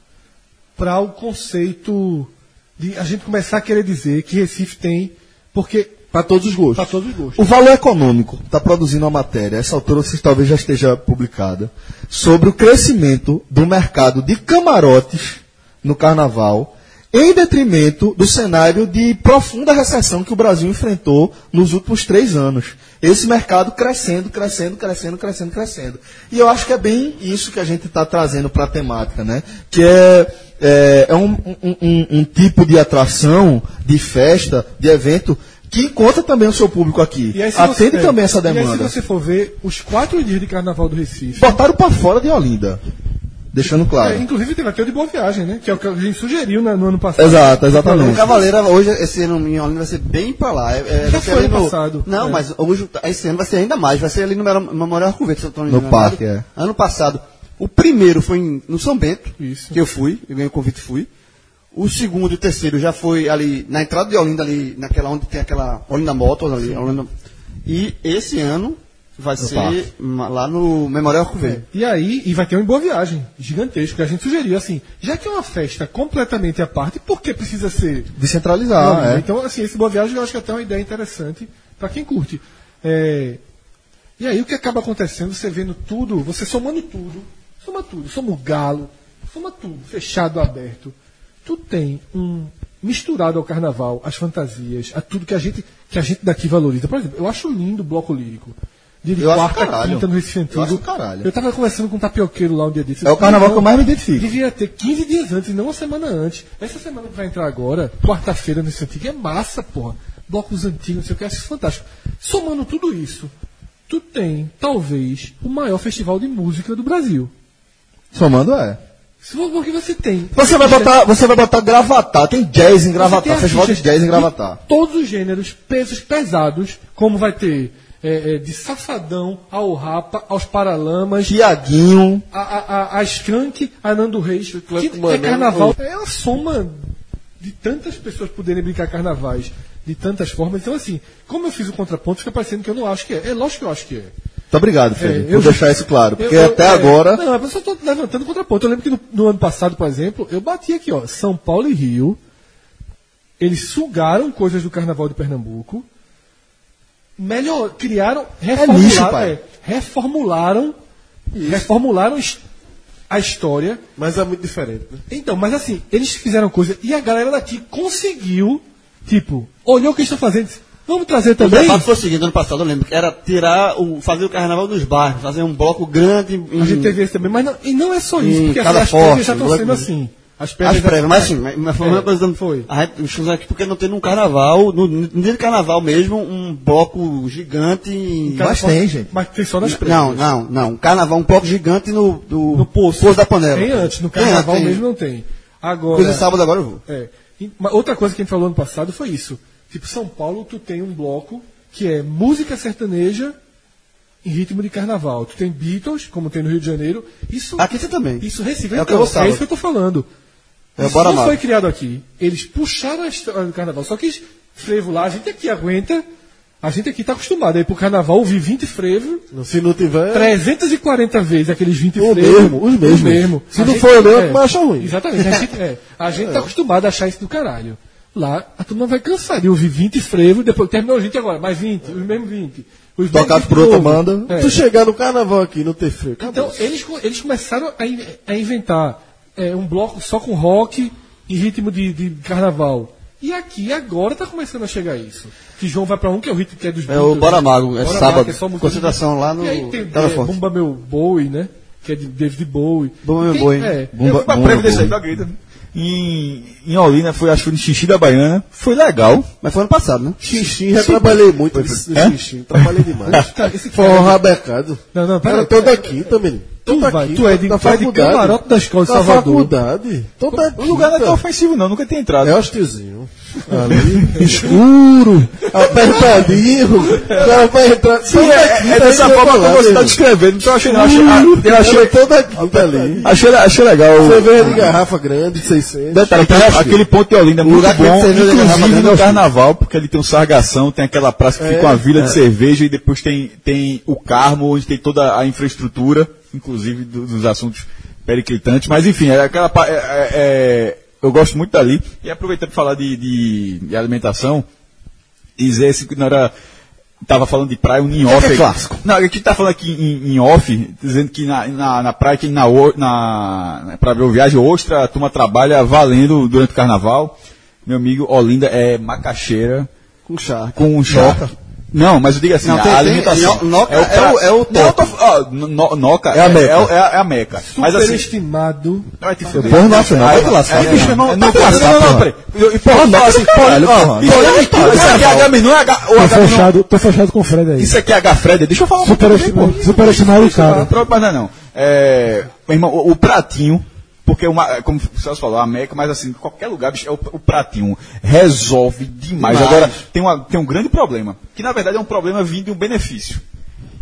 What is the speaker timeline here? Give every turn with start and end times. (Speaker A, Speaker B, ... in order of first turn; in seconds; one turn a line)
Speaker A: 0.8-6.1
Speaker B: 6.1-7.0
Speaker A: 6.7-7.4
Speaker C: 7.4-39.0
Speaker A: 37.3-41.6
Speaker C: 41.4-42.8
Speaker C: 43.5-44.2
Speaker A: 44.0-48.2
Speaker C: 47.2-48.3
Speaker D: 48.0-61.1
Speaker A: 51.0-52.4
Speaker C: 55.7-56.5
Speaker A: 59.4-59.8
Speaker D: 61.7-67.1
Speaker D: 67.7-71.6
Speaker C: 69.4-69.8
Speaker A: 71.4-78.1
Speaker C: 78.2-79.2
Speaker A: 78.8-83.4
Speaker A: 84.2-113.3
Speaker C: 99.2-101.3
Speaker C: 103.0-104.3
Speaker A: 113.9-117.3
Speaker C: 118.1-118.8
Speaker A: 119.2-120.9
Speaker C: 120.3-124.6
Speaker A: 123.0-131.4
Speaker C: 131.2-132.2
Speaker A: 132.3-144.1
Speaker B: 134.5-135.7
Speaker C: 144.5-147.2
Speaker A: 145.0-152.2
Speaker A: 153.4-155.9
Speaker A: 157.2-160.8
Speaker C: 158.6-159.3
Speaker A: 161.4-162.4
Speaker A: 163.1-163.8
Speaker B: 164.0-165.0
Speaker A: 165.1-171.9
Speaker D: 171.4-177.0
Speaker A: 176.6-182.7
Speaker D: 178.2-179.9
Speaker D: 180.6-188.6
Speaker A: 188.3-190.3
Speaker C: 188.4-189.1
Speaker D: 189.6-194.8
Speaker A: 192.5-196.2
Speaker D: 195.9-196.8
Speaker A: 196.9-203.3
Speaker A: 204.2-210.1
Speaker D: 207.6-209.4
Speaker D: 210.8-211.4
Speaker A: 210.8-216.1
Speaker A: 216.6-219.2
Speaker B: 219.3-220.4
Speaker A: 220.1-234.6
Speaker B: 222.0-225.0
Speaker B: 226.1-226.5
Speaker C: 233.1-234.3
Speaker B: 234.3-236.6
Speaker A: 236.2-253.9
Speaker D: 246.9-250.4
Speaker D: 253.0-253.8
Speaker C: 253.9-255.0
Speaker E: 254.0-259.3
Speaker D: 259.4-260.2
Speaker B: 260.2-271.2
Speaker E: 260.3-263.1
Speaker A: 263.1-264.2
Speaker A: 264.9-265.9
Speaker A: 266.6-269.5
Speaker E: 270.6-272.4
Speaker B: 272.2-280.0
Speaker A: 274.2-274.9
Speaker C: 275.6-276.3
Speaker E: 278.0-282.0
Speaker B: 280.6-283.1
Speaker E: 282.5-284.7
Speaker B: 283.9-286.1
Speaker C: 284.4-284.7
Speaker D: 285.9-286.8
Speaker E: 286.0-304.5
Speaker D: 287.4-289.2
Speaker B: 291.4-292.1
Speaker E: 305.4-306.3
Speaker E: 307.1-319.7
Speaker D: 308.1-308.8
Speaker D: 320.1-321.3
Speaker E: 320.6-328.1
Speaker C: 320.9-321.2
Speaker D: 322.4-324.9
Speaker C: 326.1-326.7
Speaker A: 327.4-328.9
Speaker E: 329.0-336.5
Speaker C: 329.3-335.3
Speaker D: 329.4-332.0
Speaker D: 334.0-335.3
Speaker F: 335.9-337.8
Speaker E: 337.6-353.2
Speaker F: 338.8-340.7
Speaker C: 349.2-349.8
Speaker D: 349.3-349.7